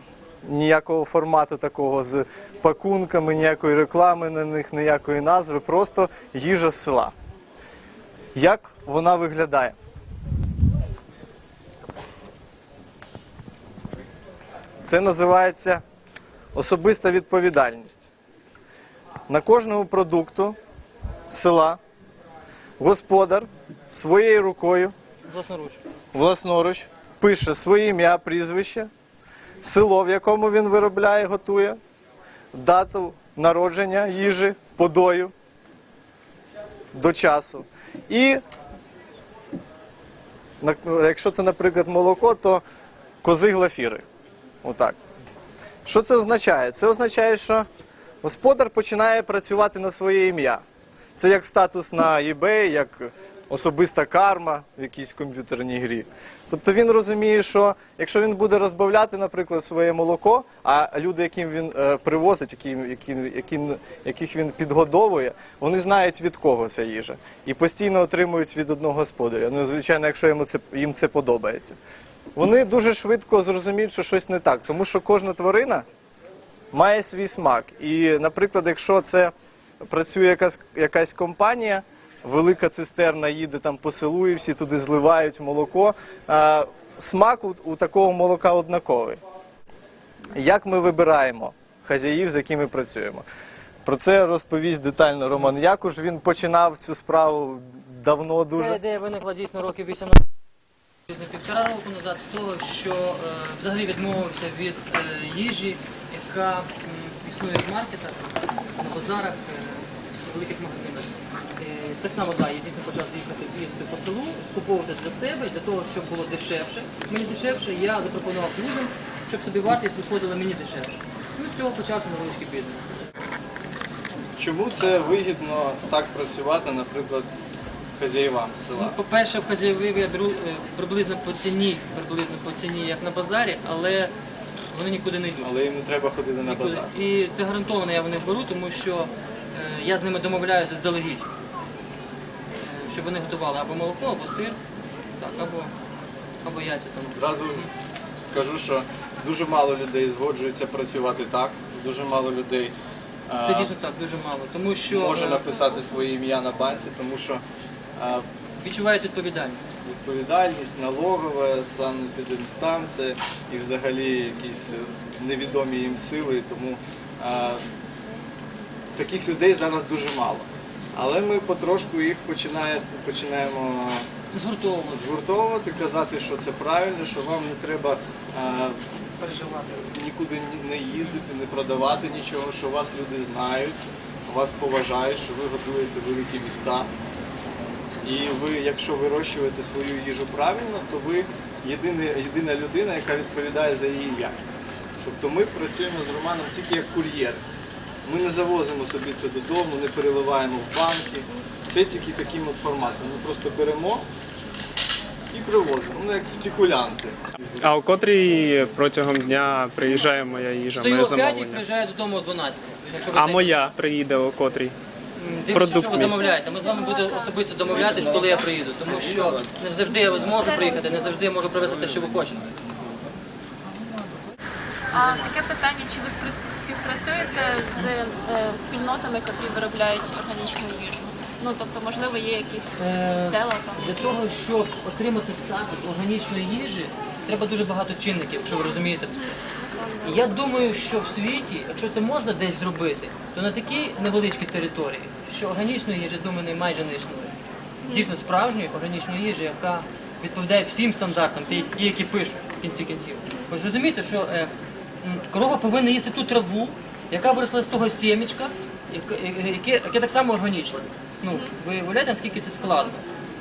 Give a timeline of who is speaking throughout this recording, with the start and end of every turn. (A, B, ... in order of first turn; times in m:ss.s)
0:00.4-0:07.1 A
0:08.4-0:09.7 A
0:14.8-0:15.8 A
0:16.5-0:18.1 A
0:19.3-0:20.6 A
0:21.3-0:21.8 A
0:22.8-0:24.9 A
0:25.3-0:25.8 B
0:26.1-0:28.9 A
0:29.6-0:31.8 A
0:32.5-0:35.3 A
0:36.9-0:38.4 A
0:40.6-0:42.6 A
0:43.2-0:44.0 A
0:44.6-0:45.0 A
0:45.9-0:47.7 A
0:48.2-0:50.6 A
0:51.2-1:11.8 A
1:12.4-1:15.8 A
1:16.7-1:19.3 A
1:19.9-1:29.2 A
1:30.3-1:33.2 A
1:33.9-1:38.8 A
1:38.5-1:40.2 B
1:41.1-2:03.0 B
2:04.4-2:07.3 A
2:08.0-2:09.0 A
2:08.8-2:14.1 B
2:14.7-2:15.5 B
2:15.4-2:16.9 A
2:16.4-2:21.3 B
2:22.6-2:24.6 B
2:25.2-2:25.7 B
2:26.4-2:27.7 B
2:27.2-2:32.7 A
2:33.3-2:33.7 A
2:33.4-2:35.4 B
2:34.9-2:37.4 A
2:38.0-2:38.2 A
2:38.6-2:39.7 B
2:39.8-2:47.6 A
2:49.0-2:54.1 A
2:54.3-2:55.2 B
2:54.9-2:58.8 A
2:59.2-2:59.9 B
2:59.9-3:06.9 A
3:08.0-3:17.4 A
3:18.0-3:24.0 A
3:25.3-3:27.2 A
3:27.6-3:31.6 C
3:30.8-3:33.6 B
3:33.2-3:34.8 C
3:35.2-3:42.5 B
3:35.5-3:36.3 C
3:36.4-3:37.3 D
3:37.7-3:39.5 A
3:40.2-3:41.0 D
3:41.9-3:43.3 A
3:44.9-3:54.0 D
3:45.0-3:45.2 B
3:52.8-3:59.4 B
3:59.6-4:00.2 D
4:00.0-4:07.3 B
4:07.8-4:08.1 D
4:07.9-4:23.1 B